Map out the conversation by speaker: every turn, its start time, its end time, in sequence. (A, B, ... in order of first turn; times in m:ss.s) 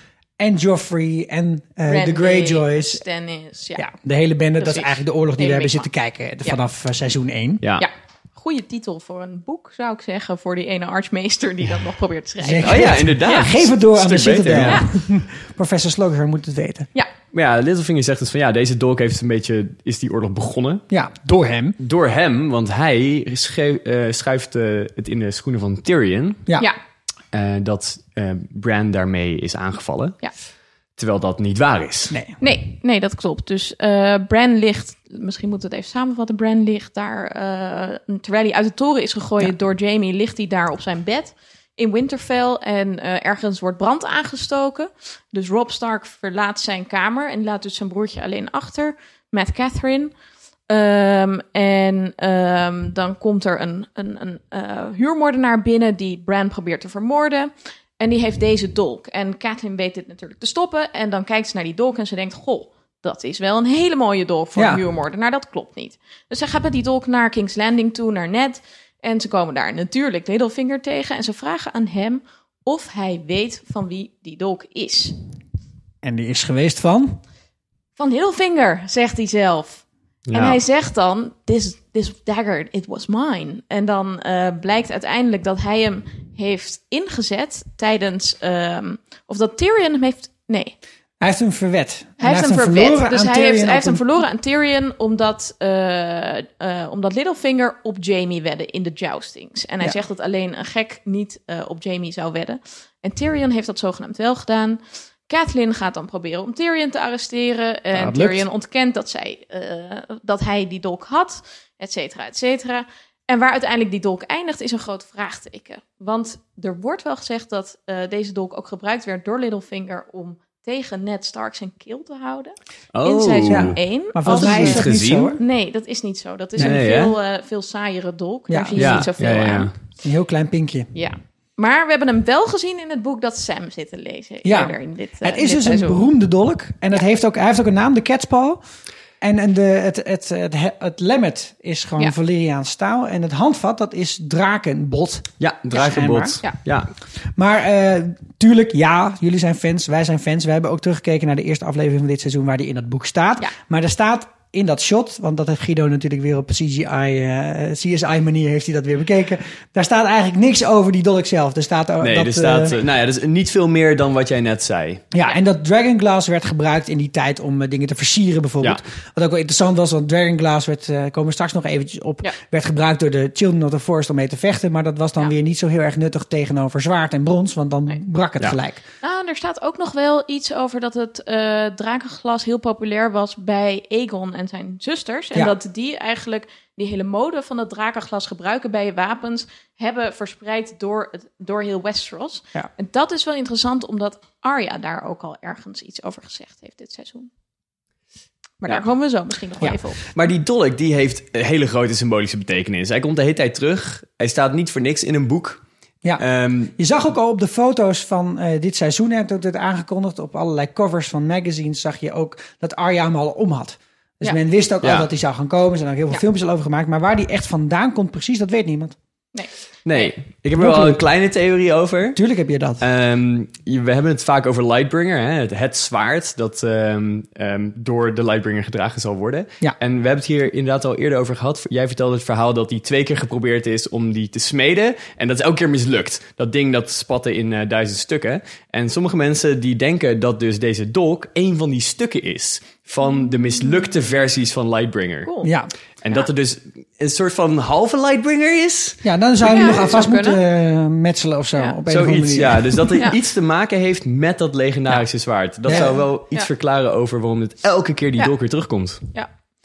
0:00.4-0:03.0 A
0:01.9-0:03.9 B
0:03.8-0:07.6 A
0:04.6-0:05.9 B
0:07.6-0:07.9 C
0:07.8-0:13.0 B
0:12.4-0:16.9 A
0:12.6-0:14.9 C
0:14.6-0:14.9 B
0:17.3-0:20.8 C
0:20.9-0:21.8 A
0:21.8-0:26.4 C
0:27.3-0:30.2 C
0:31.0-0:32.2 C
0:32.1-0:32.4 A
0:32.4-0:50.1 B
0:50.7-1:15.1 B
1:04.6-1:04.8 A
1:16.0-1:17.2 A
1:18.0-1:30.8 B
1:20.3-1:20.6 C
1:31.2-1:34.0 A
1:32.2-2:04.9 B
1:47.9-1:48.4 A
2:02.9-2:05.4 C
2:03.5-2:05.4 A
2:05.4-2:09.7 B
2:06.6-2:06.8 A
2:06.6-2:07.2 C
2:08.5-2:09.1 A
2:08.8-2:09.7 C
2:10.0-2:10.9 A
2:10.9-2:16.1 B
2:14.4-2:18.6 A
2:19.2-2:26.4 A
2:25.4-2:26.9 C
2:27.4-2:42.8 A
2:42.0-2:45.0 C
2:45.1-2:58.8 A
2:59.0-3:17.3 B
3:18.6-3:20.0 B
3:20.1-3:25.6 C
3:26.2-3:26.7 C
3:26.8-3:39.0 A
3:34.8-3:35.1 C
3:39.3-3:40.1 B
3:39.9-3:42.2 C
3:40.6-3:41.0 A
3:42.2-3:42.8 A
3:42.8-4:05.3 C
4:05.2-4:05.5 B
4:05.4-4:05.7 A
4:06.0-4:09.0 C
4:09.0-4:13.0 A
4:09.4-4:10.4 B
4:11.9-4:19.0 C
4:15.6-4:16.0 A
4:15.7-4:16.5 B